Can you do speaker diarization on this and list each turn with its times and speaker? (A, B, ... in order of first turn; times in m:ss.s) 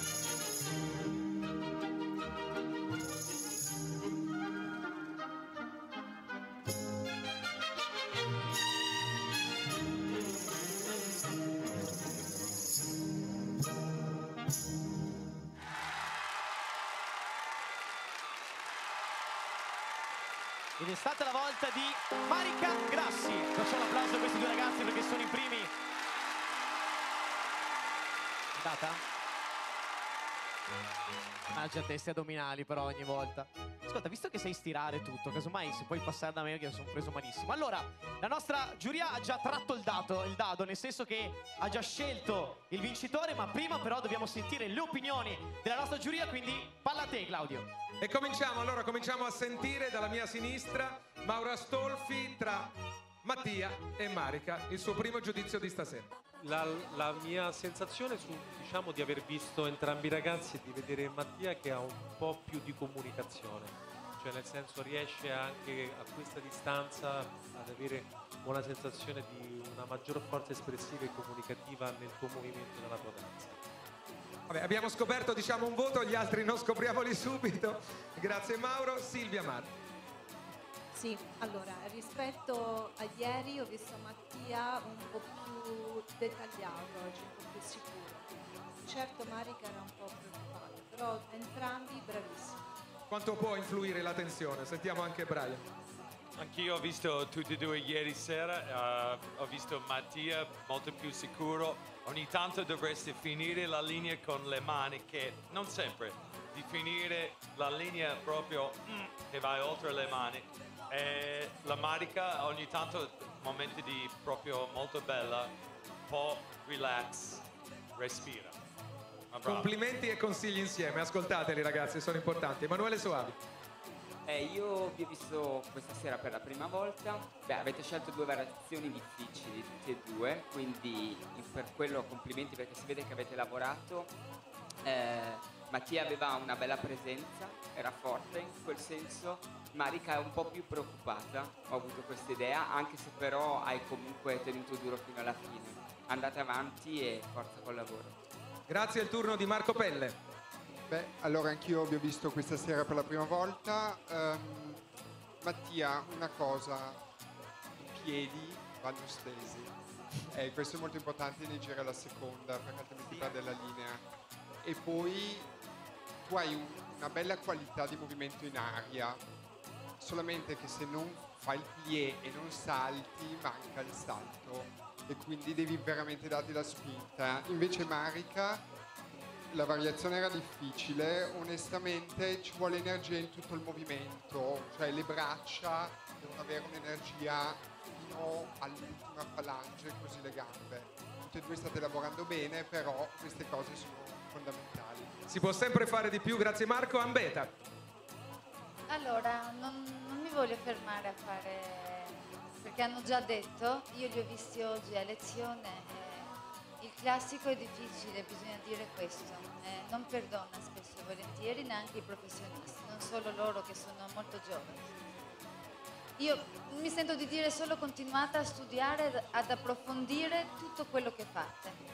0:20.8-0:25.7 A
0:28.6-0:29.0 A
0:31.5-0:47.7 A
0:48.0-0:56.1 B
0:56.4-1:13.6 C
1:14.5-1:19.8 B
1:20.9-1:28.3 D
1:28.8-1:32.8 D
1:33.1-1:35.7 B
1:36.4-1:58.6 E
1:59.3-1:59.7 E
1:59.4-2:03.4 B
2:04.3-2:14.2 F
2:14.8-2:28.2 F
2:28.7-2:30.2 B
2:30.9-2:34.8 G
2:35.4-2:37.0 G
2:37.7-2:39.7 G
2:40.3-2:44.0 G
2:44.6-2:45.5 G
2:46.2-2:49.2 G
2:50.0-2:58.7 G
2:59.5-3:15.2 G
3:15.3-3:17.6 B
3:18.9-3:35.1 H
3:36.2-3:41.8 H